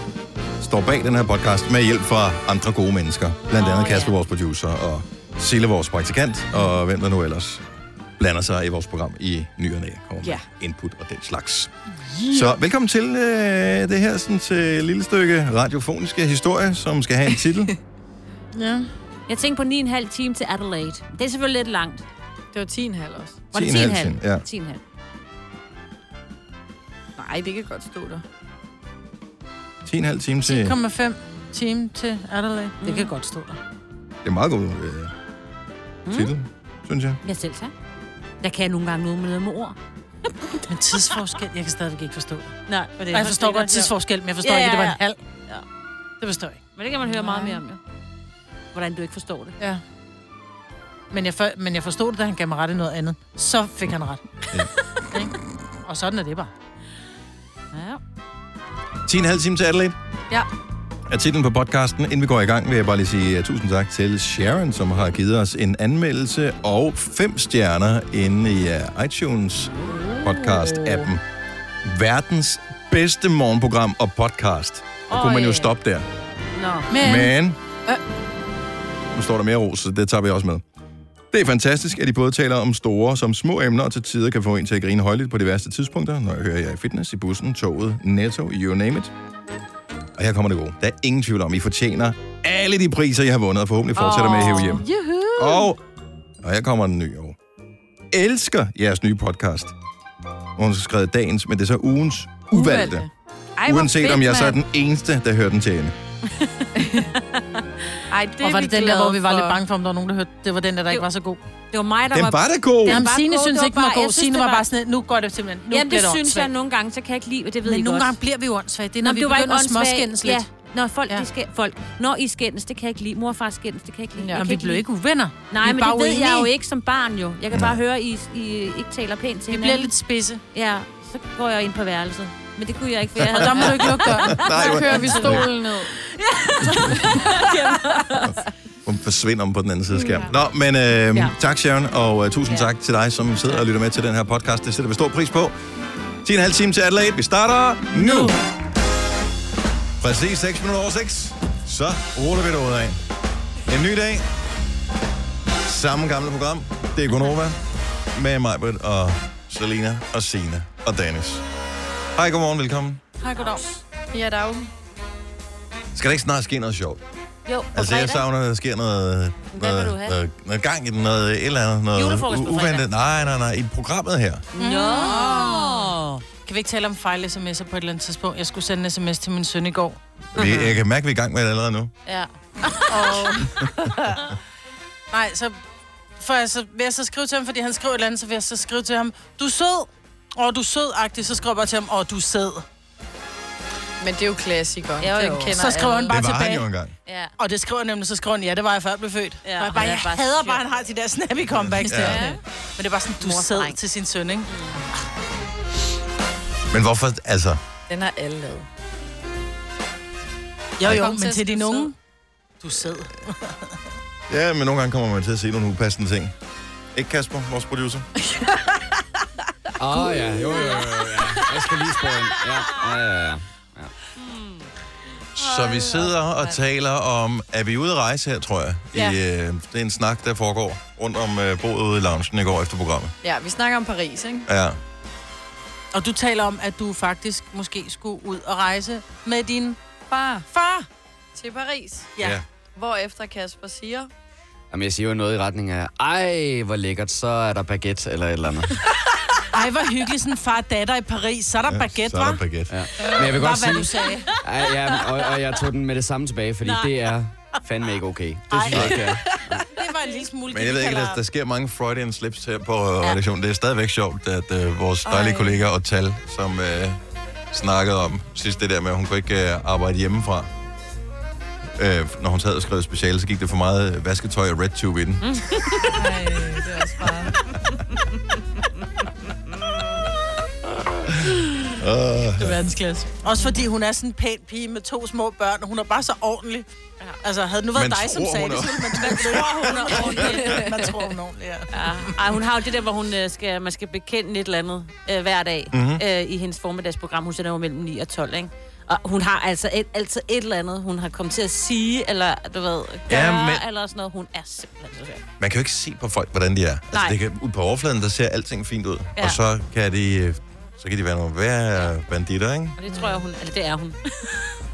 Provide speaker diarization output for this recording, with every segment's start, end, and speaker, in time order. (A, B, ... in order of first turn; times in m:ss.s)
0:00.6-0:07.6 A
0:03.6-0:04.1 B
0:08.2-0:11.7 A
0:12.1-0:12.5 C
0:12.3-0:17.7 A
0:18.5-0:18.9 C
0:19.3-0:22.0 B
0:22.5-0:23.4 D
0:23.5-0:24.4 A
0:23.5-0:24.8 B
0:27.2-0:28.2 D
0:29.8-0:30.8 A
0:30.4-0:33.6 C
0:32.8-0:33.1 B
0:34.2-0:35.1 A
0:36.0-0:36.3 B
0:36.1-0:37.2 A
0:37.2-0:37.7 B
0:38.4-0:39.8 B
0:40.4-0:41.2 B
0:40.7-0:45.2 C
0:42.7-0:45.6 B
0:46.2-0:46.6 C
0:46.8-0:47.8 B
0:47.2-0:47.5 D
0:48.7-0:49.6 B
0:51.1-0:54.2 C
0:55.1-0:56.5 C
0:57.7-0:58.0 B
0:59.0-1:00.0 A
1:01.1-1:11.2 A
1:11.8-1:16.1 A
1:15.1-1:15.7 B
1:16.5-1:16.9 B
1:16.9-1:17.3 C
1:16.9-1:17.6 A
1:19.1-1:20.6 A
1:21.3-1:29.1 A
1:30.2-1:34.8 A
1:34.0-1:34.8 D
1:34.1-1:34.8 B
1:35.4-1:35.8 A
1:36.4-1:37.4 A
1:38.1-1:39.7 A
1:40.6-1:43.0 A
1:42.5-1:44.6 D
1:43.6-1:46.0 A
1:46.4-1:47.6 B
1:46.7-1:47.1 D
1:48.1-1:49.6 D
1:48.4-1:51.4 C
1:51.7-1:54.7 B
1:52.1-1:53.0 A
1:52.8-1:56.5 C
1:55.7-1:58.1 B
1:57.6-2:00.4 C
1:59.0-2:04.8 B
2:04.2-2:04.5 D
2:04.3-2:06.5 C
2:05.5-2:09.9 B
2:07.5-2:07.8 A
2:09.5-2:10.4 C
2:10.5-2:18.4 B
2:13.2-2:15.5 A
2:13.3-2:14.4 C
2:14.5-2:15.9 D
2:16.6-2:17.2 A
2:18.8-2:25.6 A
2:20.0-2:20.3 D
2:26.2-2:28.4 A
2:30.0-2:33.0 A
2:33.7-2:34.2 A
2:35.6-2:37.6 A
2:38.1-2:41.4 A
2:42.1-2:43.0 A
2:43.2-2:43.6 C
2:43.3-2:43.8 B
2:44.1-2:44.7 D
2:45.9-2:47.0 A
2:47.4-2:48.2 B
2:47.7-2:54.4 A
2:49.5-2:50.2 B
2:51.9-2:52.8 B
2:54.5-2:56.2 B
2:54.6-2:55.6 C
2:55.0-2:55.6 D
2:56.4-3:00.0 C
3:00.3-3:01.9 A
3:00.4-3:00.6 B
3:02.0-3:03.4 B
3:02.9-3:04.3 C
3:05.1-3:05.6 C
3:06.2-3:12.6 C
3:14.0-3:15.8 D
3:15.0-3:16.1 B
3:15.5-3:16.6 C
3:16.1-3:16.9 A
3:17.0-3:17.3 B
3:17.4-3:24.5 C
3:19.4-3:20.8 B
3:21.6-3:22.3 A
3:22.0-3:22.4 D
3:23.2-3:23.8 B
3:24.4-3:24.8 B
3:26.7-3:27.6 A
3:27.9-3:28.7 D
3:30.8-3:31.9 C
3:30.8-3:31.9 D
3:32.6-3:33.8 C
3:34.3-3:36.3 A
3:36.9-3:38.1 A
3:38.2-3:38.8 D
3:39.8-3:43.9 E
3:39.9-3:41.8 D
3:44.2-3:44.7 B
3:45.3-3:53.1 A
3:45.6-3:46.6 D
3:53.2-3:54.5 D
3:54.5-3:54.8 A
3:55.9-3:59.8 C
4:00.1-4:00.5 D
4:00.5-4:00.9 C
4:01.3-4:02.1 D
4:02.2-4:02.4 A
4:02.7-4:04.1 D
4:04.7-4:08.8 E
4:09.5-4:12.4 C
4:11.6-4:12.9 A
4:12.7-4:19.7 E
4:13.0-4:14.4 C
4:16.6-4:16.9 B
4:18.5-4:19.0 C
4:18.7-4:19.0 A
4:19.1-4:19.5 D
4:19.7-4:21.2 C
4:20.5-4:27.0 A
4:25.0-4:25.6 D
4:27.5-4:30.5 A
4:31.8-4:35.4 A
4:35.2-4:35.9 B
4:35.9-4:37.4 D
4:41.0-4:42.6 A
4:42.4-4:46.7 C
4:47.2-4:52.2 C
4:47.7-4:50.4 A
4:49.0-4:50.8 B
4:51.7-5:05.2 B
4:55.7-4:56.0 A
5:03.1-5:03.6 A
5:05.4-5:12.8 A
5:12.8-5:14.5 B